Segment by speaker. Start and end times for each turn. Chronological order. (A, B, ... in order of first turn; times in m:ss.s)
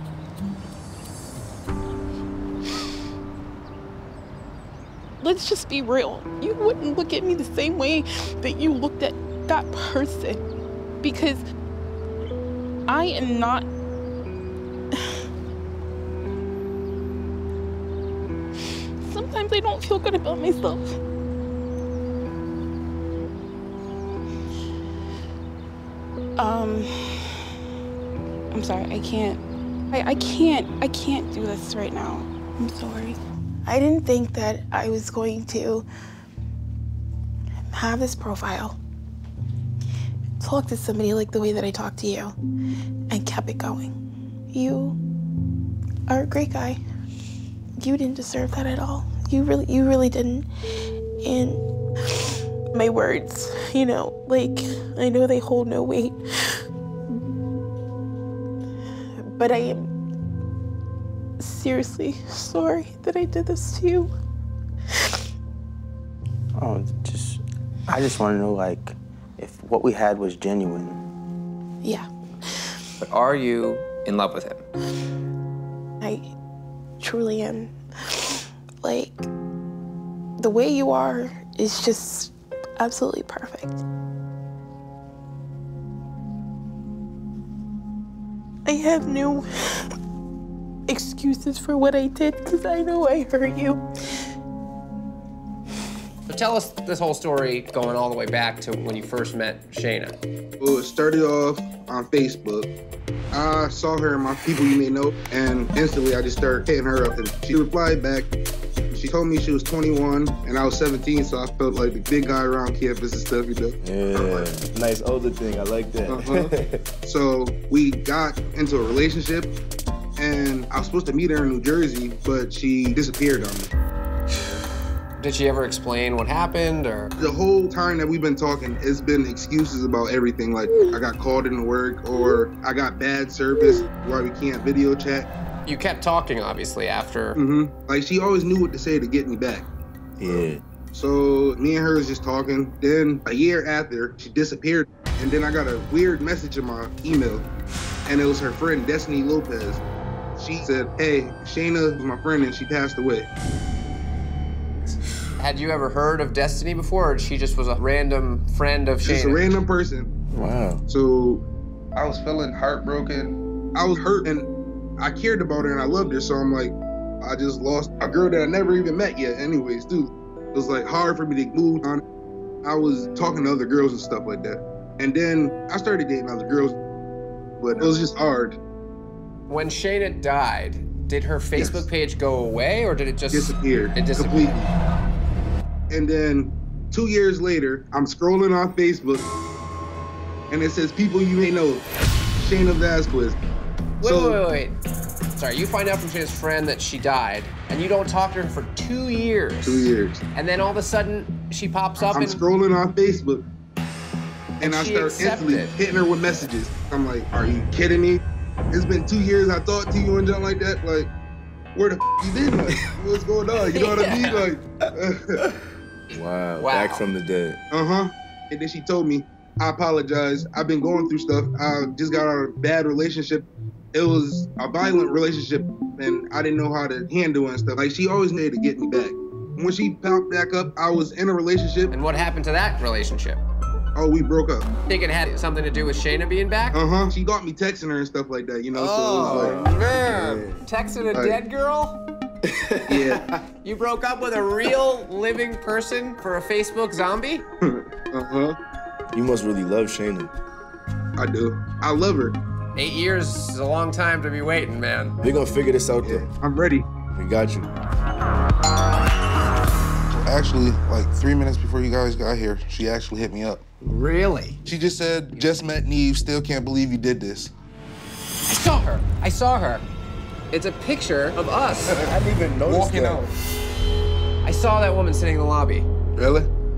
0:05.2-0:10.4 A
0:11.0-0:11.4 A
0:12.9-0:13.7 A
0:19.0-0:21.0 A
0:26.4-0:27.4 A
0:28.5-0:35.9 A
0:37.7-0:38.8 A
0:40.4-0:42.4 A
0:43.1-0:43.9 A
0:44.5-0:45.0 A
0:46.1-0:46.8 A
0:47.8-0:50.5 A
0:51.2-0:51.6 A
0:52.7-0:56.6 A
0:59.4-0:59.9 A
1:01.4-1:04.1 A
1:06.6-1:11.0 B
1:11.8-1:12.1 A
1:13.0-1:14.7 C
1:16.0-1:16.3 A
1:17.0-1:19.3 A
1:20.4-1:23.8 A
1:28.7-1:29.9 A
1:30.9-1:33.8 A
1:36.3-1:40.2 C
1:40.6-1:42.7 D
1:43.3-1:48.3 D
1:48.9-1:54.5 D
1:53.8-1:56.8 E
1:56.1-1:59.5 D
2:00.2-2:03.7 D
2:05.2-2:07.1 C
2:07.2-2:15.3 D
2:15.7-2:17.4 C
2:17.4-2:19.7 D
2:20.2-2:20.6 E
2:20.9-2:27.5 D
2:28.1-2:29.8 D
2:30.4-2:33.3 D
2:35.4-2:39.6 C
2:39.0-2:40.1 D
2:40.3-2:40.8 E
2:40.9-2:41.4 D
2:42.0-2:44.5 D
2:45.0-2:52.0 D
2:52.6-2:56.8 D
2:57.6-2:58.6 D
2:59.5-3:04.6 C
3:01.6-3:01.8 D
3:03.3-3:04.7 D
3:05.9-3:09.3 D
3:10.5-3:11.8 D
3:12.4-3:13.4 D
3:14.0-3:14.4 D
3:14.0-3:14.8 C
3:15.4-3:22.4 C
3:19.6-3:20.2 D
3:22.0-3:23.4 D
3:24.6-3:31.1 D
3:24.6-3:25.7 C
3:31.8-3:35.4 D
3:33.7-3:34.4 C
3:36.1-3:37.6 E
3:36.6-3:37.0 C
3:37.7-3:51.9 D
3:51.9-3:53.4 C
3:54.0-3:54.7 D
3:54.9-3:56.8 C
3:56.7-3:59.7 D
3:58.7-4:02.0 C
3:59.2-4:00.6 E
4:01.1-4:01.4 D
4:02.9-4:03.3 D
4:03.6-4:07.4 C
4:07.6-4:08.6 D
4:09.1-4:10.3 E
4:11.2-4:12.4 D
4:12.8-4:15.2 C
4:15.2-4:16.3 E
4:16.0-4:16.9 D
4:17.1-4:17.7 E
4:20.2-4:23.6 D
4:23.8-4:24.6 C
4:24.7-4:27.5 D
4:28.5-4:29.9 C
4:30.5-4:32.1 C
4:32.1-4:33.2 E
4:32.7-4:33.3 C
4:34.4-4:35.9 C
4:36.2-4:36.5 D